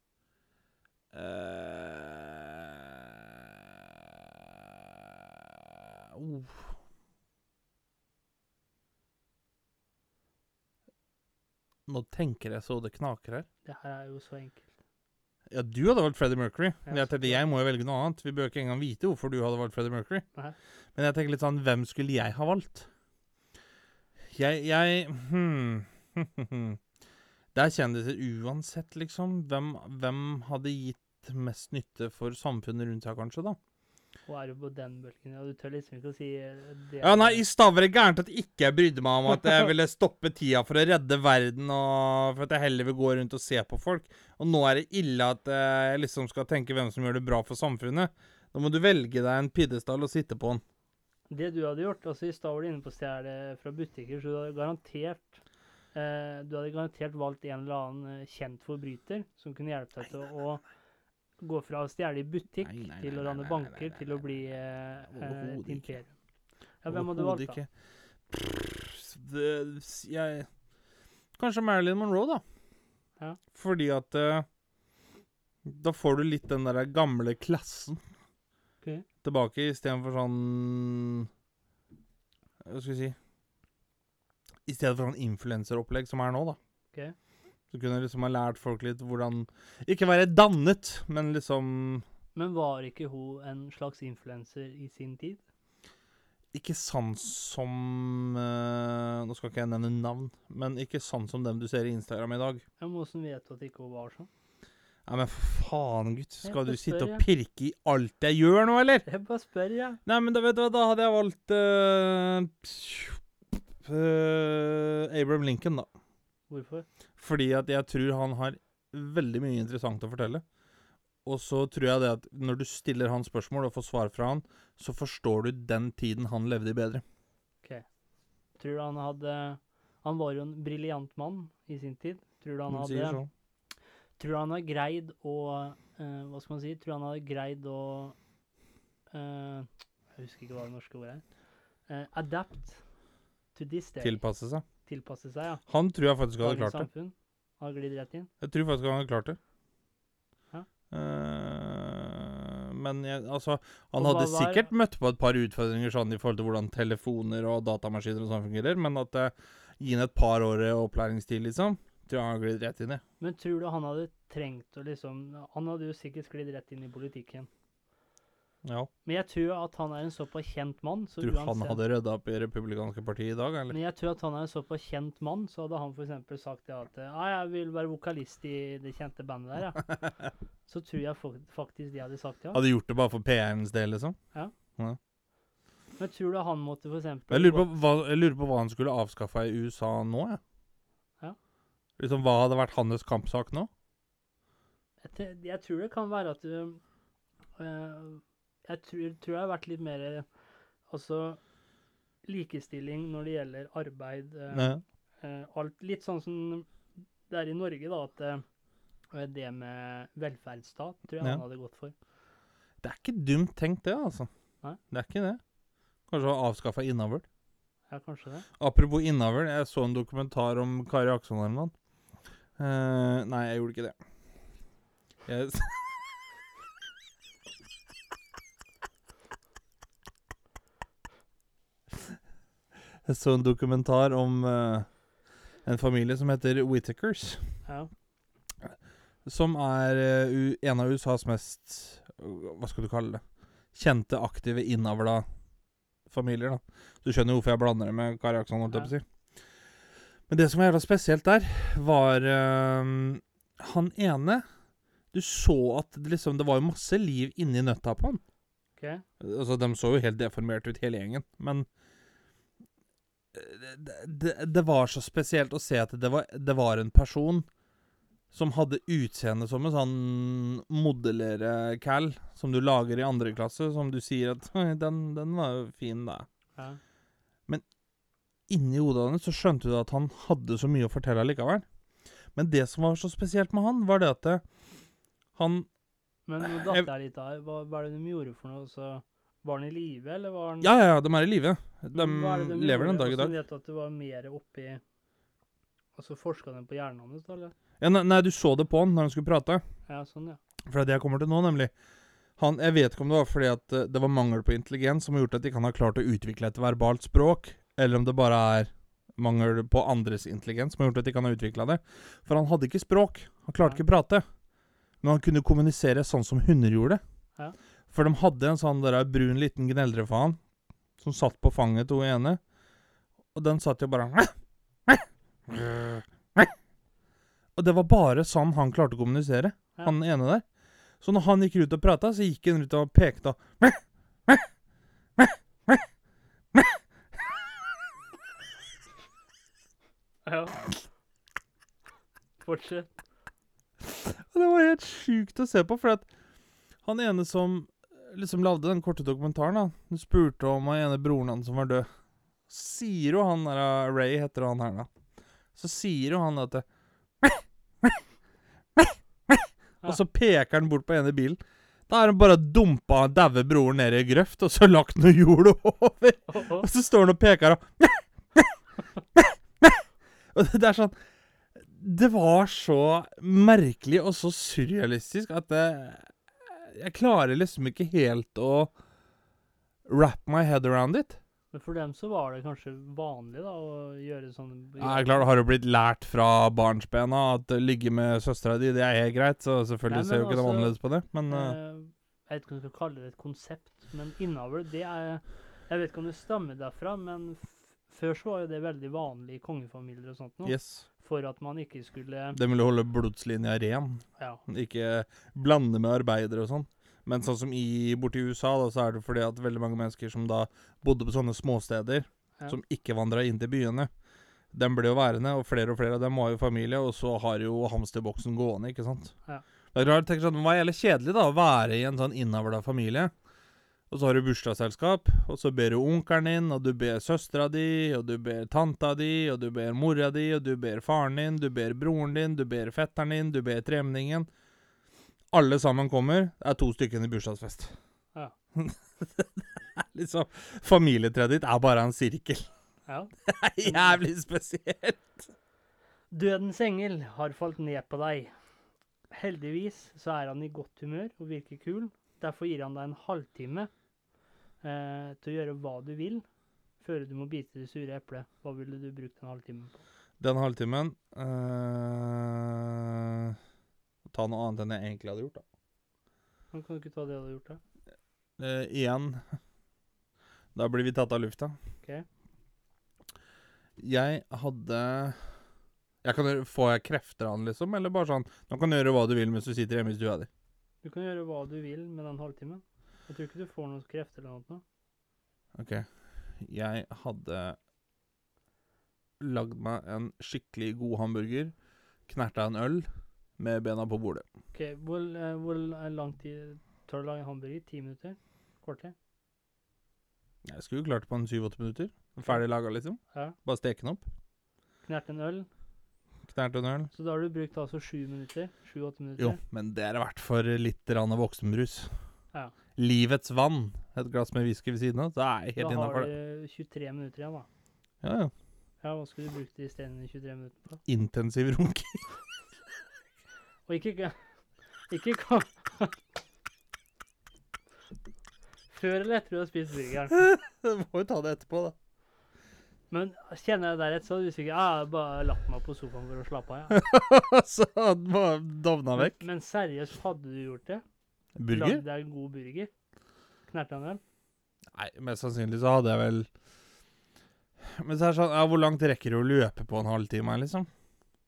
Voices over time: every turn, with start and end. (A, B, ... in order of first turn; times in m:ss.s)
0:01.1-0:03.1 A
0:06.1-0:06.7 A
0:11.9-0:13.5 A
0:13.6-0:14.6 B
0:15.5-0:20.2 A
0:16.8-0:17.4 B
0:21.0-0:22.9 A
0:24.3-0:26.8 A
0:27.5-0:33.6 A
0:34.3-0:37.4 B
0:37.0-0:50.6 A
0:51.3-0:55.4 B
0:55.9-1:00.6 B
1:01.4-1:06.1 B
1:02.6-1:04.4 A
1:05.1-1:06.0 A
1:06.8-1:07.6 B
1:06.9-1:07.7 A
1:08.3-1:10.5 A
1:11.4-1:12.4 A
1:13.5-1:14.4 A
1:15.6-1:18.0 A
1:19.2-1:21.3 A
1:22.6-1:23.2 A
1:24.7-1:26.6 A
1:27.7-1:32.0 A
1:32.3-1:35.4 B
1:36.5-1:42.6 A
1:42.8-1:44.3 B
1:45.1-1:49.0 A
1:46.4-1:47.2 B
1:49.0-1:50.0 B
1:50.0-1:53.2 A
1:53.8-1:55.9 A
1:56.5-1:56.8 B
1:57.2-2:00.4 A
2:01.2-2:07.0 A
2:08.6-2:13.2 B
2:12.7-2:13.3 A
2:14.2-2:18.2 B
2:19.1-2:21.2 B
2:21.9-2:22.8 B
2:23.5-2:24.2 B
2:24.0-2:24.6 A
2:24.8-2:25.6 B
2:25.7-2:26.9 A
2:26.4-2:28.3 B
2:28.4-2:29.4 A
2:30.9-2:43.0 A
2:34.0-2:34.7 B
2:43.2-2:47.5 B
2:48.6-2:48.9 A
2:49.0-2:51.8 B
2:51.2-2:53.7 A
2:53.7-2:59.8 B
3:00.7-3:02.6 B
3:02.5-3:04.2 A
3:06.0-3:07.6 B
3:07.3-3:10.4 A
3:12.0-3:13.7 A
3:15.0-3:16.8 B
3:17.6-3:20.2 B
3:20.9-3:21.4 B
3:22.2-3:26.7 B
3:24.5-3:24.8 A
3:27.3-3:28.4 B
3:29.1-3:31.9 B
3:32.8-3:34.3 A
3:34.9-3:35.4 A
3:36.1-3:37.2 A
3:37.9-3:38.5 B
3:38.6-3:41.7 A
3:42.6-3:44.0 A
3:45.2-3:45.9 A
3:53.0-3:54.9 A
3:55.6-3:57.5 A
3:59.2-4:03.2 A
4:03.7-4:05.2 A
4:06.1-4:09.0 A
4:10.3-4:14.4 A
4:15.1-4:18.2 A
4:18.8-4:19.0 B
4:19.2-4:21.6 A
4:23.3-4:27.5 A
4:28.3-4:36.3 A
4:38.5-4:41.6 A
4:42.3-4:44.4 A
4:45.4-4:45.7 A
4:46.2-4:50.7 B
4:46.4-4:46.9 A
4:50.6-4:53.3 A
4:51.9-4:54.8 B
4:56.0-4:57.5 B
4:57.8-4:59.6 A
4:59.9-5:00.4 B
5:00.6-5:01.7 A
5:02.4-5:14.2 A
5:15.0-5:17.0 A
5:17.9-5:20.4 A
5:21.0-5:22.4 A
5:23.3-5:24.3 A
5:24.9-5:26.5 A
5:27.6-5:30.4 A
5:31.0-5:34.5 A
5:35.2-5:35.8 A
5:40.2-5:40.7 B
5:42.4-5:42.9 B
5:43.8-5:46.0 A
5:46.8-5:51.9 A
5:52.5-5:54.9 A
5:55.5-5:56.6 A
5:57.2-5:58.0 A
5:58.8-6:08.6 A
6:06.3-6:06.7 B
6:09.1-6:09.8 A
6:10.3-6:11.0 A
6:11.6-6:18.7 A
6:19.8-6:21.2 A
6:21.5-6:25.3 B
6:24.8-6:31.6 A
6:29.9-6:30.7 B
6:31.3-6:42.4 B
6:40.4-6:40.8 A
6:42.3-6:53.9 A
6:54.5-6:59.1 A
6:59.7-7:03.1 A
7:03.9-7:14.3 A
7:15.3-7:17.7 A
7:18.6-7:22.5 A
7:23.2-7:25.3 A
7:23.6-7:24.0 B
7:26.1-7:28.3 B
7:29.1-7:33.7 B
7:34.6-7:36.2 B
7:36.8-7:39.8 B
7:40.2-7:43.4 A
7:44.1-7:45.4 A
7:46.5-7:47.6 B
7:48.4-7:49.2 A
7:50.5-7:51.6 A
7:53.8-7:55.2 A
7:56.0-8:00.3 A
8:00.8-8:04.6 B
8:05.6-8:05.8 A
8:06.4-8:07.6 A
8:09.2-8:11.5 A
8:12.1-8:12.9 A
8:13.4-8:14.2 A
8:14.5-8:18.9 B
8:20.4-8:24.0 A
8:24.8-8:25.5 B
8:26.3-8:26.9 A
8:26.9-8:29.4 B
8:29.2-8:31.9 A
8:32.8-8:36.1 A
8:35.6-8:37.5 B
8:38.0-8:38.3 A
8:38.8-8:40.8 B
8:40.8-8:42.0 A
8:43.6-8:44.2 B
8:44.9-8:46.0 B
8:48.7-8:50.1 B
8:50.1-8:51.7 A
8:52.9-8:56.8 B
8:56.7-8:59.2 A
8:59.0-9:00.8 B
9:01.4-9:01.8 A
9:01.5-9:02.7 B
9:03.5-9:04.0 B
9:04.7-9:06.3 A
9:07.8-9:10.7 A